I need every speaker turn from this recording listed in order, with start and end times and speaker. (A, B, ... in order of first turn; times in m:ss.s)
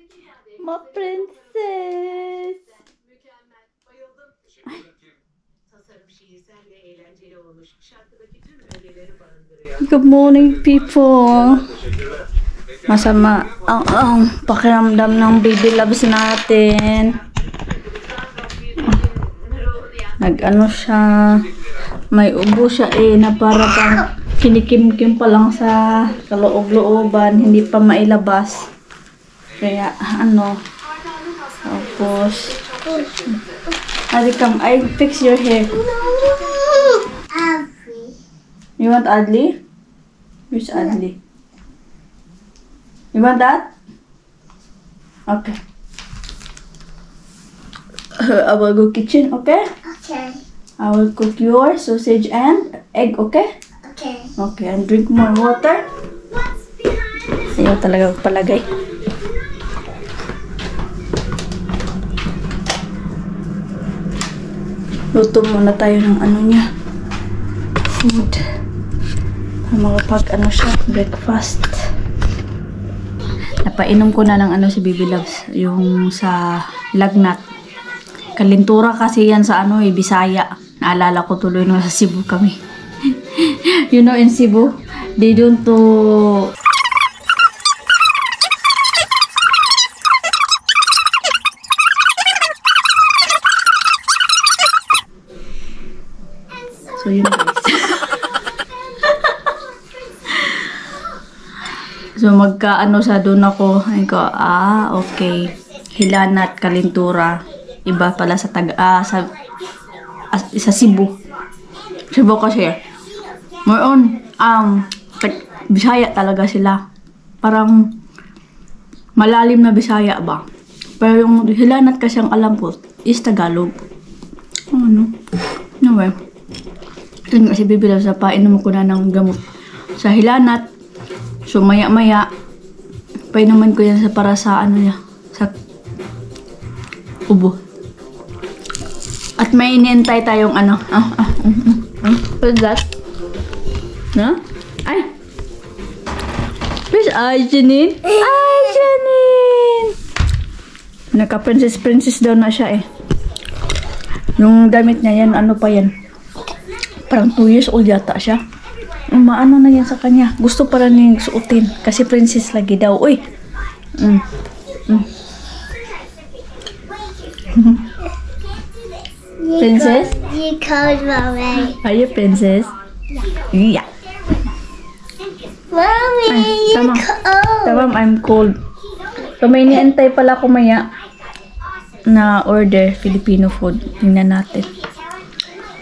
0:00.6-0:02.6 A
0:09.8-0:11.7 A
0:12.9-0:17.2 A
0:20.2-0:21.4 A
0:22.1-0:28.6 A
0:29.6-0:30.5 A
0:31.7-0:32.6 A
0:34.1-0:35.8 A
0:36.1-0:38.2 B
0:38.8-0:39.5 A
0:40.5-0:41.2 A
0:43.1-0:43.7 A
0:45.3-0:45.6 A
0:48.2-0:49.6 A
0:50.0-0:50.4 B
0:50.8-0:53.5 A
0:53.9-0:54.2 B
0:54.4-0:55.8 A
0:57.6-0:58.7 A
1:05.2-1:06.6 A
1:07.9-1:08.4 A
1:09.7-1:11.7 A
1:13.6-1:16.4 A
1:17.0-1:17.4 A
1:18.4-1:22.6 A
1:23.1-1:26.5 A
1:37.0-1:38.1 A
1:42.2-1:47.3 A
1:47.9-1:49.3 A
1:50.3-1:51.1 A
1:52.1-1:52.8 A
1:53.6-1:56.8 A
1:57.4-1:57.9 A
1:59.2-2:00.4 A
2:01.0-2:03.8 A
2:04.7-2:05.1 A
2:05.8-2:06.2 A
2:07.3-2:09.4 A
2:10.0-2:10.7 A
2:11.5-2:12.3 A
2:13.3-2:15.5 A
2:17.3-2:17.6 A
2:19.4-2:22.9 A
2:24.1-2:25.1 A
2:26.9-2:29.9 A
2:31.1-2:32.9 A
2:34.4-2:35.9 A
2:37.1-2:38.4 A
2:39.1-2:43.2 A
2:44.0-2:44.2 A
2:47.5-2:47.8 A
2:49.4-2:51.7 B
2:49.6-2:50.2 A
2:51.6-2:52.7 A
2:53.4-2:53.9 A
2:55.7-2:57.8 B
2:56.3-2:57.1 A
2:57.6-2:58.5 A
2:59.4-3:00.9 A
3:02.1-3:04.7 A